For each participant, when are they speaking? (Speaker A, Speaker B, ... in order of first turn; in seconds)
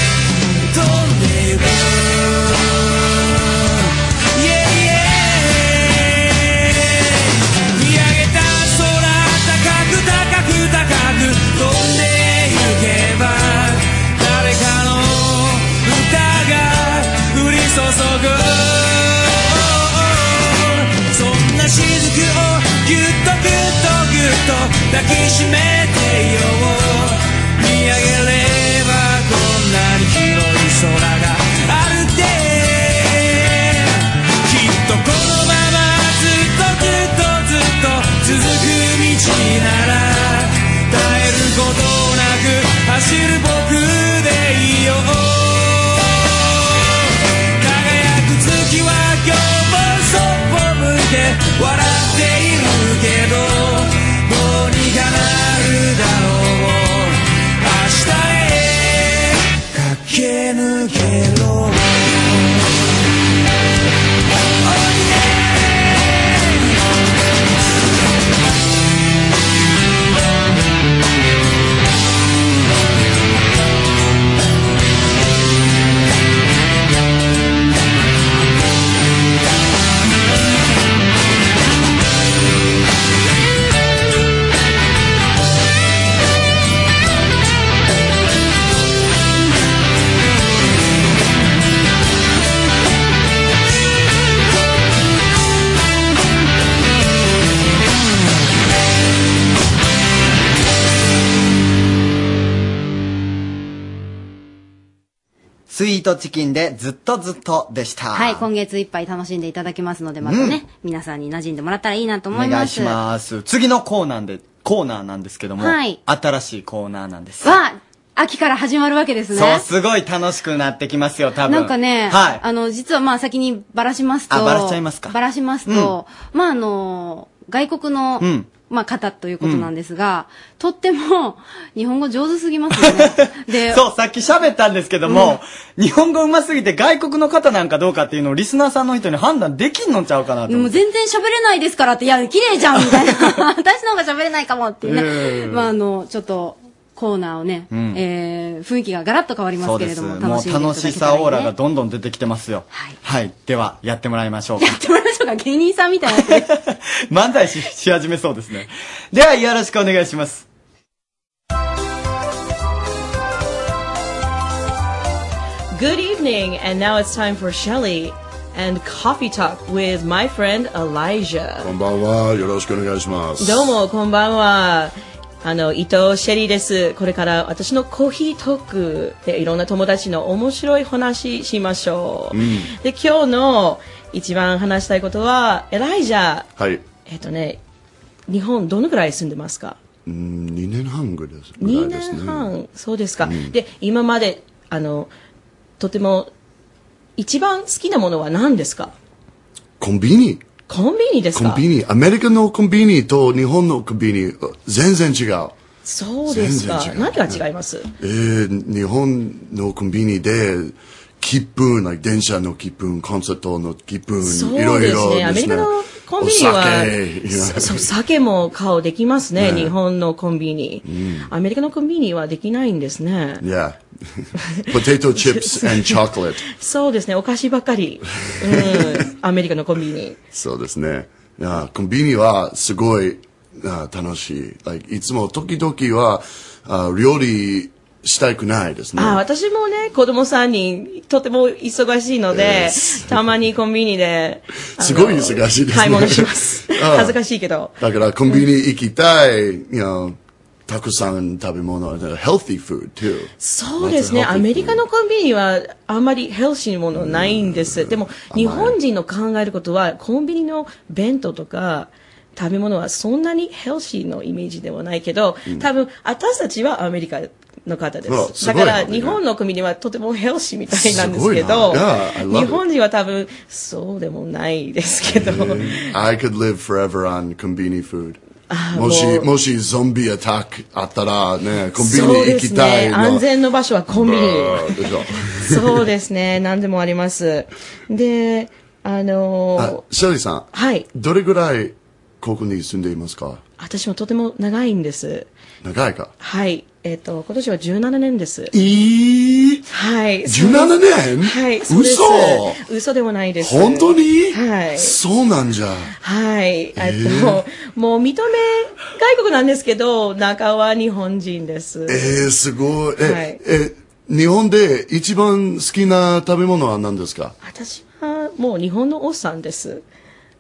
Speaker A: 0.6-63.0, 64.6-66.8
Speaker B: 105.7-108.5, 110.2-110.6, 112.3-117.6, 119.3-122.4, 124.3-125.1, 125.7-125.9, 128.2-128.5, 129.4-129.7, 132.7-140.8, 142.8-143.2, 144.8-145.7, 147.7-148.0, 149.6-154.7, 156.2-160.4
Speaker C: 108.1-113.0, 115.6-116.0, 117.4-119.6, 121.4-133.8, 135.1-135.4, 140.5-151.5, 154.6-156.5
Speaker D: 165.7-171.7, 173.4-186.5, 187.1-187.6, 188.3-189.8, 191.6-195.1, 195.8-196.3, 197.2-198.9, 200.7-201.6, 205.8-207.9, 214.2-223.4, 224.5-230.2, 239.0-247.8, 253.4-275.9, 278.5-279.3, 281.8-289.8, 290.5-290.9, 293.6-295.3, 296.2-298.5, 299.7-304.9, 306.0-312.2, 313.0-313.4, 317.4-319.8
Speaker E: 171.6-173.8, 182.3-182.7, 186.6-186.8, 190.1-192.5, 193.2-193.5, 199.8-200.5, 201.3-205.6, 206.2-207.4, 208.0-217.9, 219.3-219.7, 220.8-221.3, 223.4-226.4, 228.2-229.1, 230.3-239.2, 242.3-243.3, 244.8-247.2, 247.8-254.8, 256.9-258.8, 268.1-269.2, 270.7-272.6, 275.1-278.2, 278.7-283.2, 283.9-285.9, 289.6-293.4, 295.6-296.1, 298.5-299.6, 300.2-302.6, 303.4-305.9, 306.8-307.4, 311.9-317.3